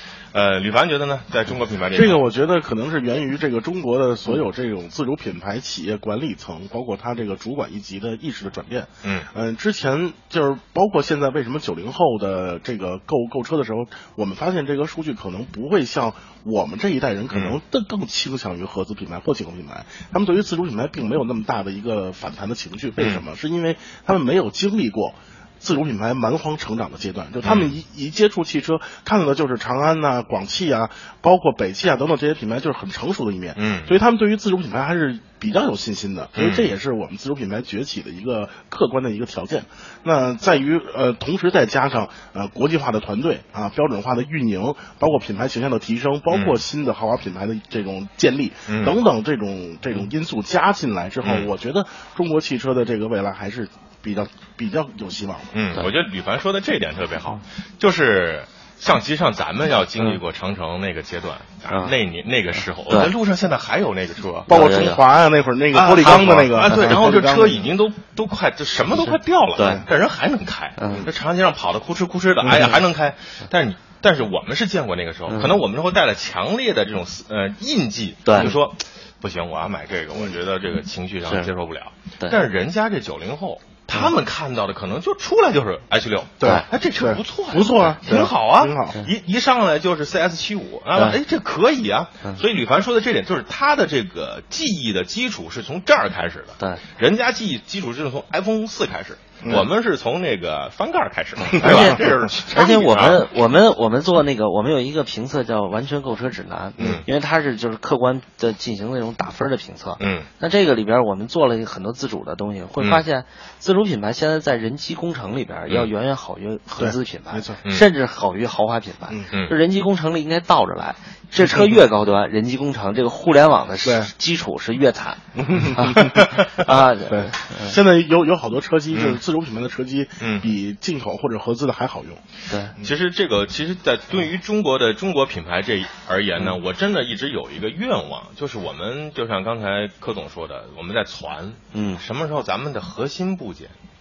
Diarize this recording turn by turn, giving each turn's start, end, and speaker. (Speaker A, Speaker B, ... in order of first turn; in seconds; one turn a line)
Speaker A: 0.3-2.2
Speaker B: 1.9-55.5
Speaker A: 9.0-9.3
Speaker A: 17.3-17.6
Speaker A: 23.0-23.2
Speaker A: 27.4-27.8
Speaker A: 33.5-34.0
Speaker A: 36.3-36.7
Speaker A: 46.3-46.6
Speaker A: 48.7-49.0
Speaker A: 51.2-51.5
Speaker A: 55.5-64.6
Speaker C: 61.7-61.9
Speaker C: 62.6-63.1
Speaker B: 64.5-67.7
Speaker C: 64.5-65.0
Speaker A: 65.7-103.3
Speaker C: 66.0-67.1
Speaker C: 69.1-69.8
Speaker C: 70.8-71.1
Speaker C: 72.5-72.8
Speaker C: 75.3-75.6
Speaker C: 78.2-78.5
Speaker C: 81.2-81.5
Speaker B: 86.4-89.0
Speaker C: 86.4-86.7
Speaker C: 101.6-125.2
Speaker A: 106.8-107.0
Speaker A: 110.0-110.3
Speaker B: 116.8-117.6
Speaker B: 121.4-121.8
Speaker B: 123.8-124.1
Speaker B: 125.3-126.2
Speaker C: 125.7-127.8
Speaker B: 127.1-132.2
Speaker A: 128.9-129.2
Speaker A: 130.2-130.5
Speaker C: 132.5-132.7
Speaker A: 132.8-143.7
Speaker C: 141.7-142.0